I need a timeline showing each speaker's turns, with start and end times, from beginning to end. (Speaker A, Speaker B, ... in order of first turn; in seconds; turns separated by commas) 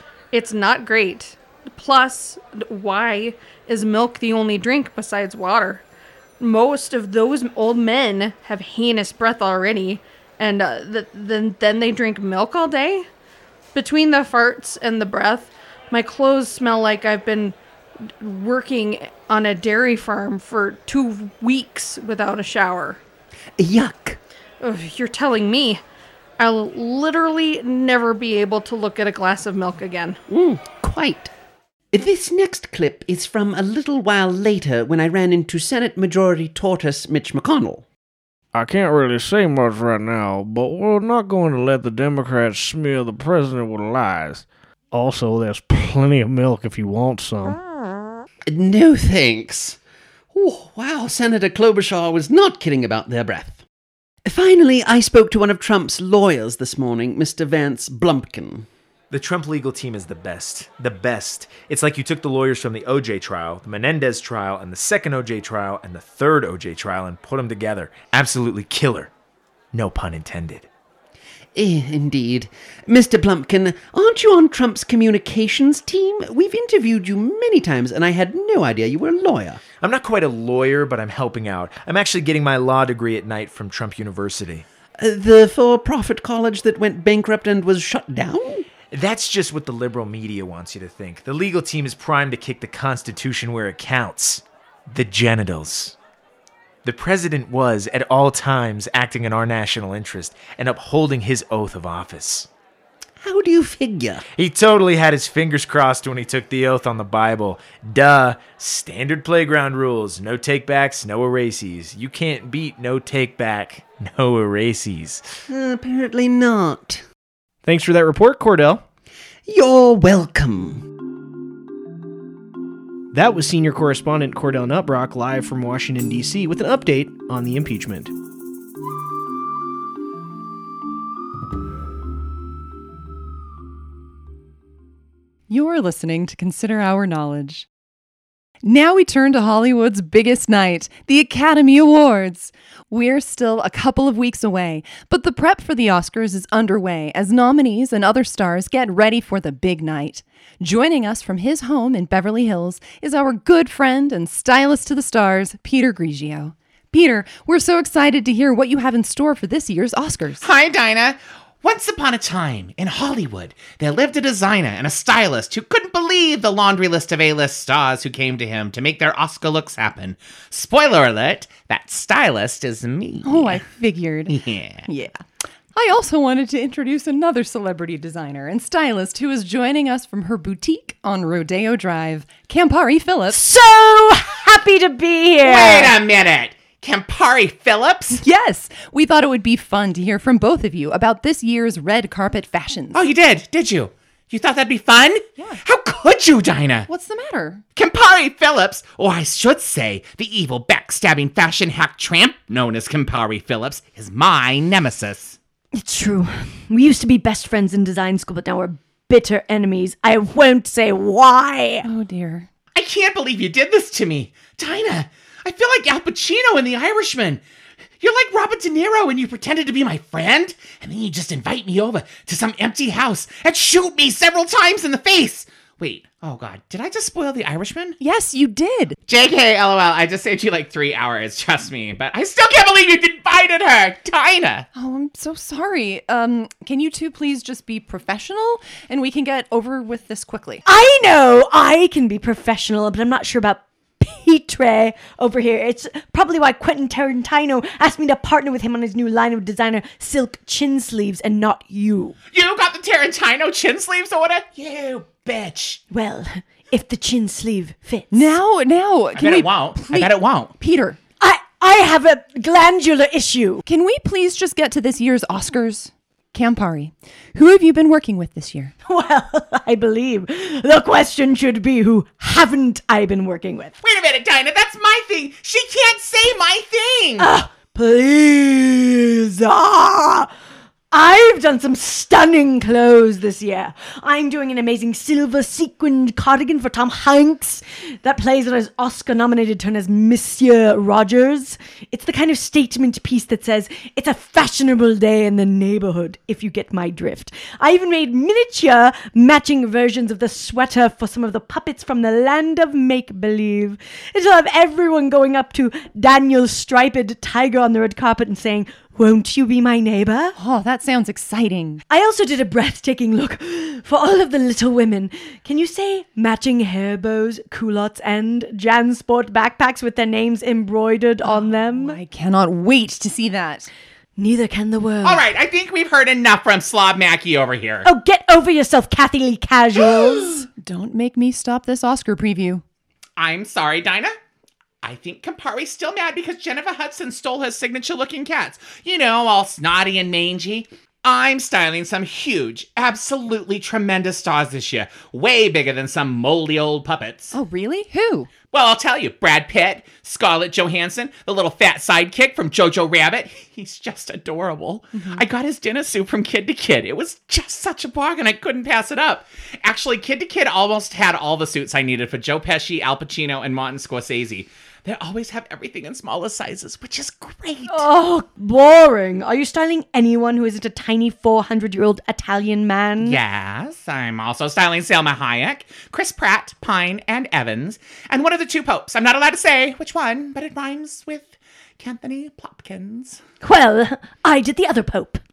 Speaker A: 0.3-5.8, Speaker A: 6.4-13.1, Speaker A: 13.8-17.6, Speaker A: 18.2-23.0, Speaker B: 23.6-24.2, Speaker A: 24.6-25.8, Speaker A: 26.4-30.2, Speaker B: 30.3-31.3, Speaker B: 31.9-37.9, Speaker C: 38.5-47.6, Speaker B: 48.5-49.8, Speaker B: 50.3-53.6, Speaker B: 54.3-58.7, Speaker D: 59.1-69.1, Speaker D: 69.7-70.7, Speaker B: 71.5-79.6, Speaker D: 79.8-84.7, Speaker B: 85.0-88.7, Speaker D: 88.9-96.0, Speaker D: 96.8-102.5, Speaker B: 103.2-104.2, Speaker D: 104.4-115.2, Speaker B: 115.5-117.0, Speaker E: 117.6-118.8, Speaker B: 119.5-120.8, Speaker E: 123.1-128.1, Speaker F: 135.5-137.7, Speaker F: 138.6-160.5, Speaker G: 160.4-173.6, Speaker F: 173.2-175.2, Speaker G: 174.3-174.8, Speaker F: 175.7-183.4, Speaker H: 183.3-186.0, Speaker G: 185.4-188.2, Speaker F: 188.2-193.0, Speaker G: 192.9-196.9, Speaker F: 196.9-197.6, Speaker G: 197.8-205.4, Speaker H: 205.7-211.9, Speaker F: 211.8-212.5, Speaker G: 212.8-217.4, Speaker G: 218.0-228.0, Speaker F: 228.0-229.0, Speaker G: 229.1-234.7, Speaker F: 234.8-240.6, Speaker H: 240.7-252.2, Speaker G: 252.3-255.8, Speaker H: 255.9-258.4, Speaker F: 258.1-261.0, Speaker G: 259.1-260.5, Speaker H: 261.2-263.6, Speaker F: 263.7-268.7, Speaker H: 268.8-273.7, Speaker G: 273.8-277.3, Speaker H: 277.2-280.3, Speaker H: 280.9-310.3, Speaker F: 310.4-311.8, Speaker H: 311.9-322.0, Speaker F: 321.2-323.7, Speaker H: 324.2-325.3, Speaker G: 325.0-327.9, Speaker H: 327.9-330.3, Speaker G: 329.8-330.2, Speaker F: 330.2-332.6, Speaker G: 333.2-334.1, Speaker G: 334.8-347.3, Speaker F: 347.3-348.3, Speaker G: 348.5-367.9, Speaker F: 355.0-355.2, Speaker H: 367.7-373.2, Speaker G: 373.0-383.2, Speaker H: 383.4-385.2